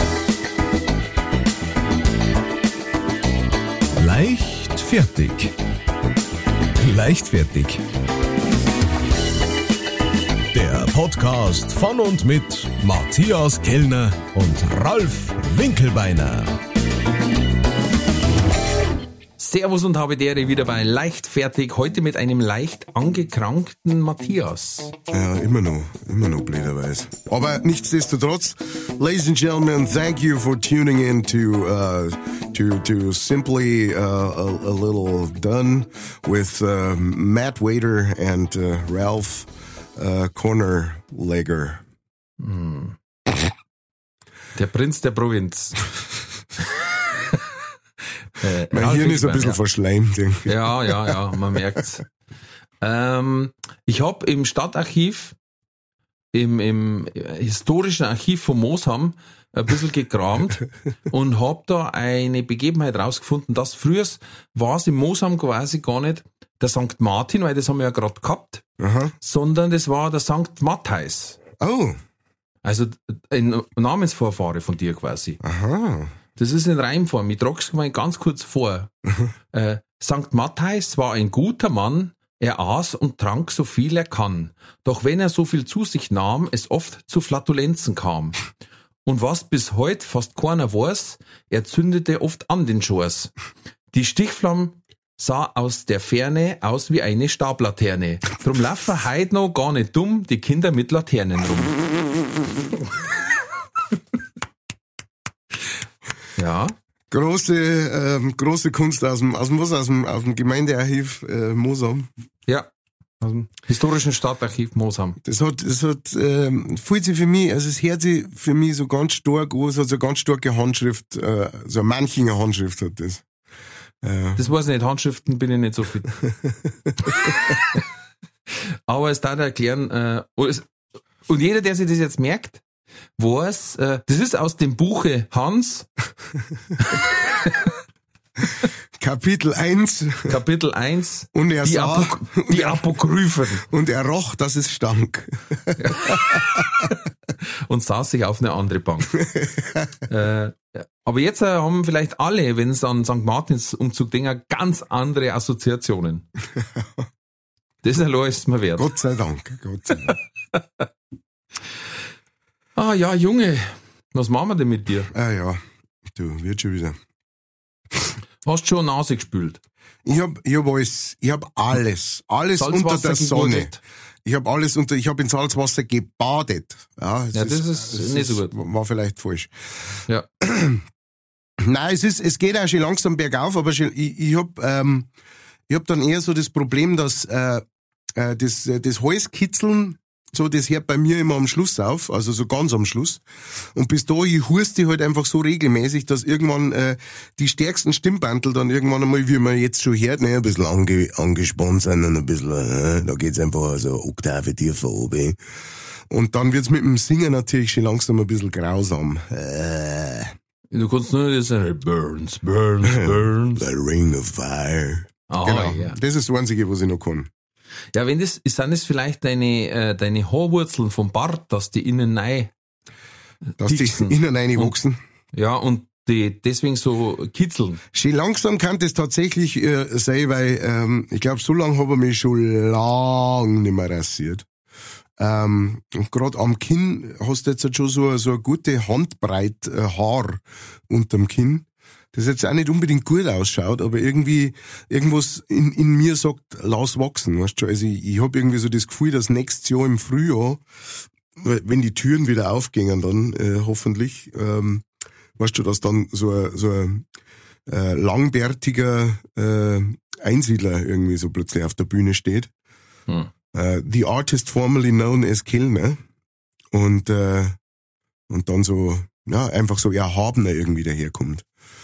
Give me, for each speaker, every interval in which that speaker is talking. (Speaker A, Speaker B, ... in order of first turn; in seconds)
Speaker A: 4.0-5.5, 6.7-7.8, 10.5-16.6
Speaker B: 19.4-24.9, 42.4-43.0, 44.5-45.9, 48.3-49.6, 50.5-52.0, 52.8-55.3, 56.3-68.6, 69.2-71.4, 72.6-75.4, 76.4-78.9, 79.5-88.4, 89.0-93.3, 93.9-101.8, 106.3-106.7, 113.2-115.2, 124.3-126.2, 128.9-130.7, 131.2-132.6, 133.2-135.9, 136.9-137.7, 140.2-143.6, 145.8-146.9, 147.7-149.2, 150.1-156.2, 157.8-158.9, 162.8-165.1, 168.4-169.6, 172.6-173.8, 177.3-178.5, 210.7-213.6, 215.3-216.0, 217.9-222.5, 223.6-224.7, 225.3-227.8
Speaker C: 25.1-41.8, 48.7-51.1, 68.8-69.1, 71.6-72.0, 75.4-76.1, 107.1-112.1, 115.2-123.2, 124.0-124.4, 139.0-140.4, 141.3-142.8, 143.6-146.8, 149.3-149.9, 158.8-160.2, 165.1-167.0, 170.0-173.7, 174.2-180.8, 181.6-185.1, 185.7-187.6, 188.2-193.2, 193.7-205.4, 206.1-210.3, 212.8-217.3, 223.6-225.0, 227.9-234.4, 235.2-250.6, 251.3-254.8, 255.4-257.0, 257.7-262.5, 263.5-266.0, 266.7-267.6, 268.3-271.4